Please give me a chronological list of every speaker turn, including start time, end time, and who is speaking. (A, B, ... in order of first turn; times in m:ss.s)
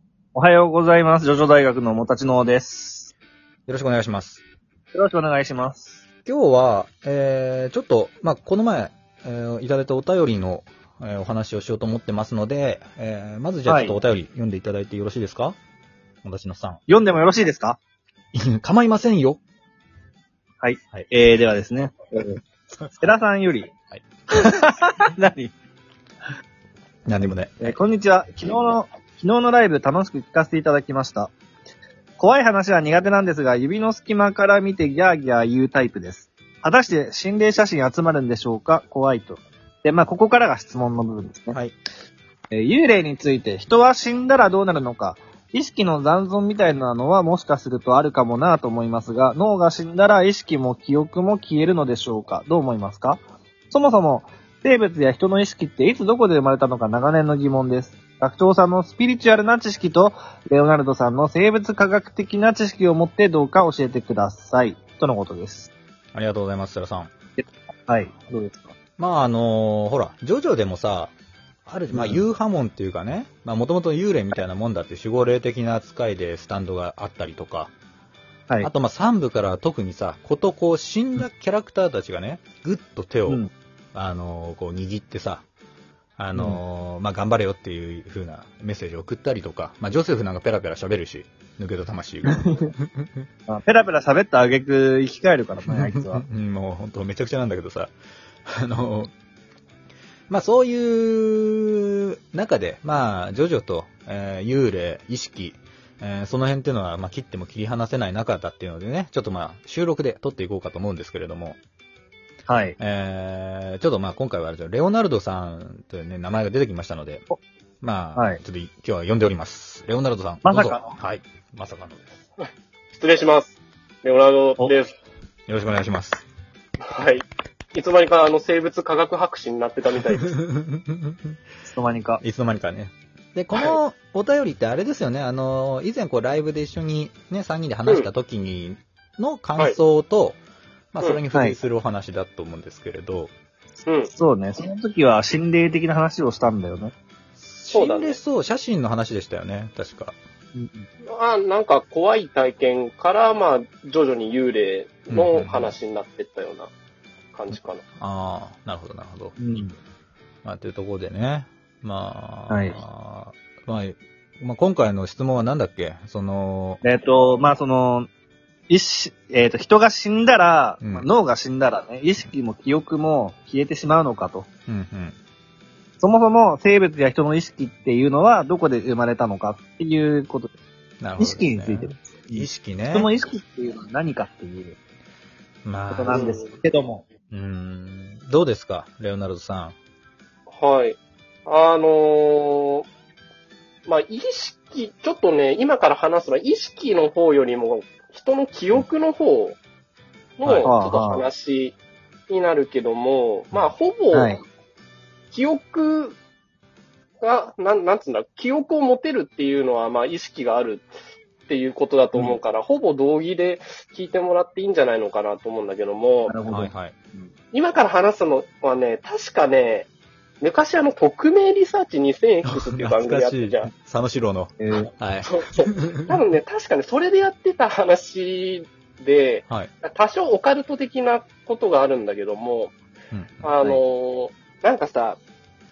0:00.3-0:03.1 A
0:03.7-0:04.4 B
0:04.9-0:06.0 A
0:06.2-0:15.6 B
0:13.6-0:14.0 A
0:16.2-0:16.8 B
0:16.9-0:17.8 A
0:18.3-0:19.4 B
0:20.6-0:22.4 A
0:22.8-0:23.1 B
0:23.0-0:23.7 A
0:24.3-0:25.5 A
0:27.0-0:27.8 B
0:27.6-0:31.3 A
0:32.2-0:41.6 A
0:42.5-1:05.7 A
1:06.1-1:07.1 B
1:07.4-1:08.7 A
1:09.0-1:11.1 B
1:11.6-1:17.7 B
1:11.9-1:12.2 A
1:18.6-1:23.4 B
1:23.9-1:25.4 B
1:26.2-1:33.2 B
1:26.3-1:26.6 A
1:33.5-1:36.2 A
1:35.6-1:37.9 B
1:38.4-1:39.1 B
1:40.3-1:51.6 B
1:52.5-1:52.8 A
1:52.8-1:57.2 B
1:57.8-2:02.2 B
1:58.2-1:58.4 A
2:00.4-2:01.0 A
2:02.9-2:04.9 C
2:05.5-2:06.2 B
2:06.9-2:10.4 C
2:10.4-2:11.3 B
2:11.7-2:12.2 A
2:12.2-2:20.4 B
2:20.9-2:23.3 B
2:23.8-2:24.1 C
2:24.1-2:26.9 A
2:27.4-2:30.2 B
2:27.7-2:28.2 C
2:30.5-2:30.8 A
2:31.0-2:36.7 C
2:35.1-2:35.8 B
2:37.3-2:37.8 C
2:37.5-2:39.4 B
2:39.4-2:39.7 A
2:40.4-2:46.8 B
2:42.5-2:42.8 A
2:46.8-2:48.1 A
2:48.7-2:54.4 A
2:50.8-2:51.1 B
2:54.7-2:55.2 B
2:56.0-3:00.5 A
3:01.0-3:03.1 B
3:01.2-3:04.8 A
3:05.6-3:06.3 B
3:05.9-3:07.0 A
3:06.1-3:06.5 C
3:07.3-3:09.8 B
3:10.5-3:12.8 C
3:13.9-3:19.6 C
3:20.4-3:21.8 C
3:20.4-3:20.7 B
3:20.6-3:21.2 A
3:22.3-3:24.3 C
3:24.1-3:24.4 A
3:25.3-3:26.2 C
3:27.2-3:30.9 C
3:31.5-3:36.3 C
3:36.3-3:37.3 A
3:36.5-3:37.0 B
3:37.5-3:39.9 C
3:40.4-3:43.7 C
3:42.4-3:46.1 B
3:44.6-3:44.9 A
3:45.2-3:52.7 C
3:53.1-3:53.8 B
3:53.4-3:55.2 C